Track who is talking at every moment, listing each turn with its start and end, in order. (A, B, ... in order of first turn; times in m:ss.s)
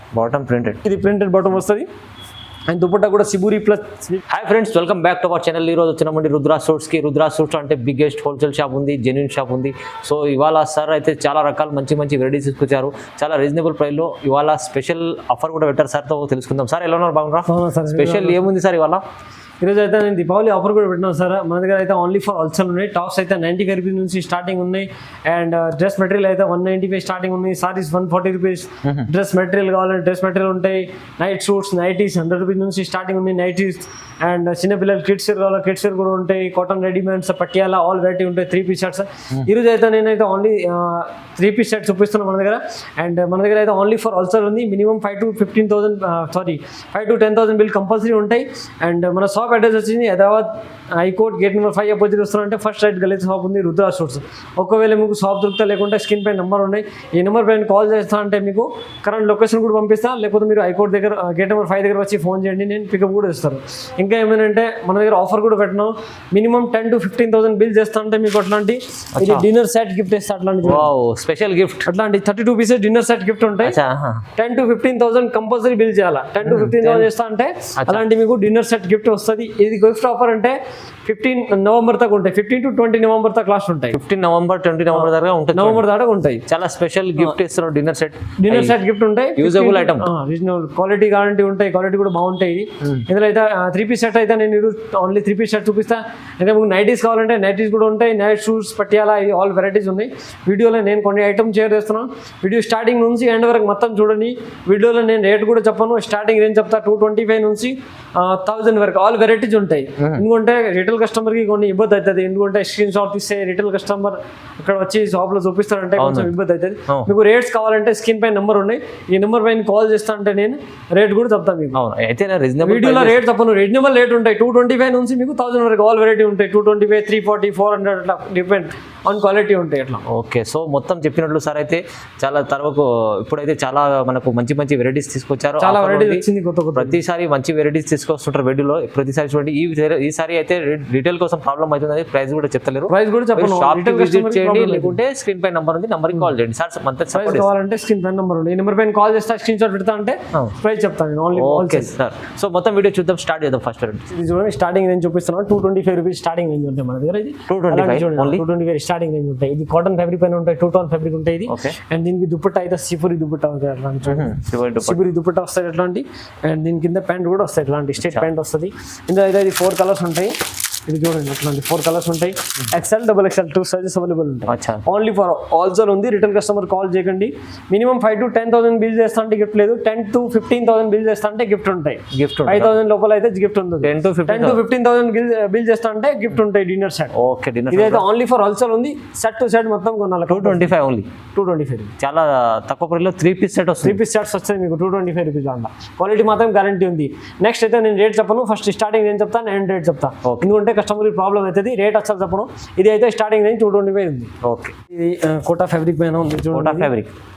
0:00.1-0:00.8 A
0:00.8-0:01.9 B
0:02.7-0:04.2 B
0:04.3-0:19.0 A
0:17.5-0:18.4 B
0:19.6-1:10.9 B
0:28.8-0:29.1 A
1:09.1-1:09.4 A
1:10.6-1:11.9 A
1:11.8-1:13.8 B
1:13.6-1:14.3 A
1:14.3-1:24.0 B
1:16.4-1:17.1 A
1:23.9-1:25.9 A
1:24.9-1:26.4 B
1:26.4-1:28.8 A
1:28.4-2:01.8 B
1:29.4-1:30.1 A
1:50.0-1:50.2 A
1:56.0-1:56.3 A
2:01.7-2:03.3 A
2:02.6-2:10.0 B
2:10.0-2:27.5 A
2:15.6-2:17.0 B
2:22.9-2:25.0 B
2:27.1-2:31.9 B
2:31.3-2:34.1 A
2:34.1-2:50.3 B
2:37.5-2:38.4 A
2:41.5-2:41.8 A
2:44.0-2:45.0 A
2:48.0-2:48.3 A
2:50.9-3:07.1 B
2:54.5-2:54.8 A
3:02.1-3:02.8 A
3:03.8-3:04.6 A
3:07.1-3:08.0 A
3:07.7-3:10.7 B
3:10.3-3:11.1 A
3:11.3-3:11.9 B
3:12.0-3:14.0 A
3:13.8-3:24.3 B
3:20.2-3:20.5 A
3:24.4-3:24.7 A
3:24.9-3:26.9 B
3:26.5-3:27.1 A